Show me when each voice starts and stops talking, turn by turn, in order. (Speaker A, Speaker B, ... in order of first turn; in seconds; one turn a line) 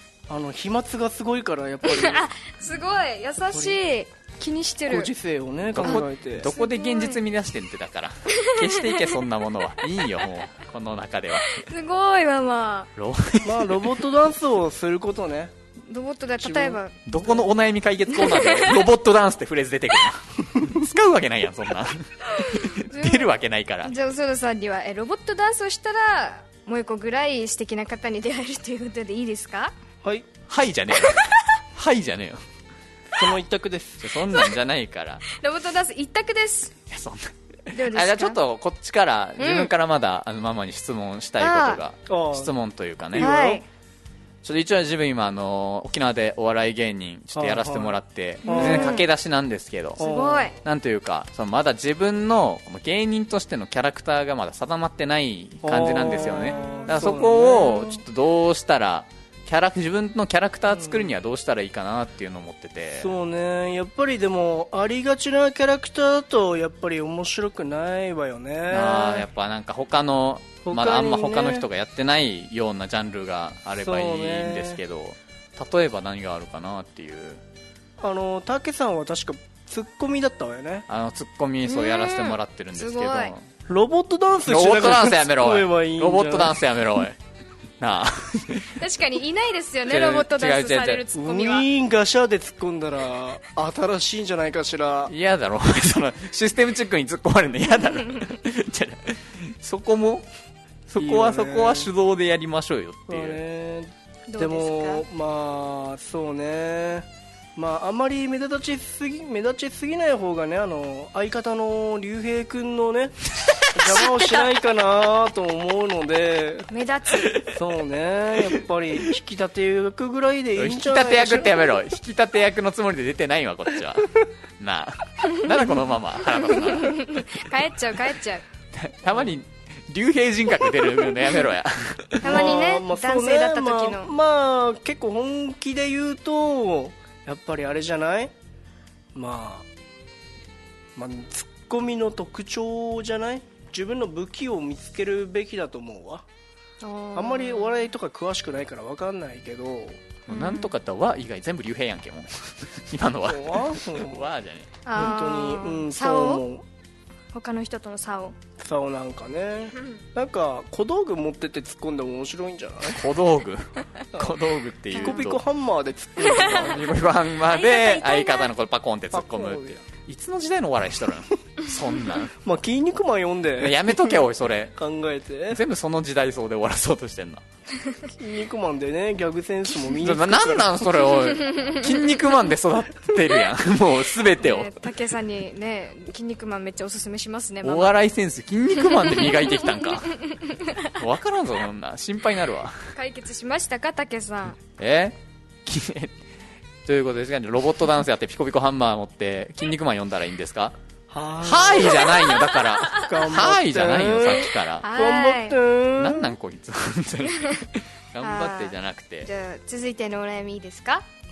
Speaker A: 0.3-2.3
Speaker B: 1.9-5.1
Speaker A: 3.5-3.8
Speaker A: 4.9-6.5
Speaker C: 5.7-11.7
Speaker B: 5.8-7.2
Speaker B: 8.4-9.1
Speaker B: 11.6-12.9
Speaker C: 13.0-13.9
Speaker A: 13.4-15.5
Speaker B: 15.9-17.0
Speaker A: 16.4-16.8
Speaker C: 17.1-23.9
Speaker B: 18.2-18.8
Speaker B: 22.5-23.3
Speaker B: 23.9-29.7
Speaker A: 30.0-30.3
Speaker C: 30.5-32.4
Speaker A: 33.1-34.0
Speaker C: 34.0-35.3
Speaker B: 35.3-36.7
Speaker C: 36.9-43.3
Speaker B: 37.7-38.4
Speaker B: 39.4-39.7
Speaker B: 41.4-41.8
Speaker A: 42.1-42.5
Speaker A: 43.1-43.6
Speaker B: 43.2-43.6
Speaker C: 44.4-63.1
Speaker A: 47.3-49.0
Speaker B: 48.5-49.1
Speaker A: 50.0-50.5
Speaker B: 50.0-50.6
Speaker A: 55.6-58.0
Speaker A: 60.7-61.1
Speaker A: 63.0-69.3
Speaker C: 68.7-77.4
Speaker A: 70.7-71.7
Speaker A: 73.8-74.8
Speaker A: 78.0-80.8
Speaker C: 80.9-83.4
Speaker B: 81.7-83.3
Speaker A: 83.7-86.6
Speaker C: 84.5-87.2
Speaker C: 87.8-88.8
Speaker B: 88.8-91.7
Speaker C: 89.9-91.0
Speaker A: 91.1-95.1
Speaker C: 95.1-100.3
Speaker C: 100.9-103.4
Speaker A: 101.0-101.9
Speaker A: 103.1-113.2
Speaker B: 104.3-105.0
Speaker A: 113.7-116.7
Speaker B: 116.7-117.4
Speaker C: 117.2-117.5
Speaker A: 117.5-121.7
Speaker C: 120.6-127.5
Speaker B: 126.7-128.4
Speaker C: 128.7-132.5
Speaker A: 132.2-138.3
Speaker B: 132.2-134.1
Speaker A: 139.2-139.7
Speaker A: 141.0-146.2
Speaker B: 146.8-147.9
Speaker A: 147.2-150.0
Speaker C: 150.3-154.7
Speaker B: 150.3-150.7
Speaker A: 153.3-154.3
Speaker B: 154.9-156.4
Speaker A: 154.9-156.7
Speaker B: 157.3-158.4
Speaker A: 158.6-163.0
Speaker C: 162.9-165.4
Speaker A: 164.1-164.4
Speaker B: 164.9-165.2
Speaker A: 164.9-166.9
Speaker C: 166.4-172.4
Speaker B: 167.5-168.5
Speaker A: 169.1-169.8
Speaker A: 172.4-174.2
Speaker C: 173.6-174.8
Speaker A: 174.8-175.6
Speaker C: 175.5-177.4
Speaker A: 178.2-180.8
Speaker C: 179.9-184.7
Speaker B: 184.4-188.0
Speaker C: 187.6-190.2
Speaker B: 189.0-190.8
Speaker C: 190.9-192.8
Speaker B: 192.9-194.6
Speaker C: 194.8-196.1
Speaker C: 196.9-200.8
Speaker A: 201.1-202.2
Speaker C: 201.4-204.9
Speaker A: 203.0-206.3
Speaker B: 204.8-205.6
Speaker C: 206.0-209.3
Speaker B: 208.2-211.1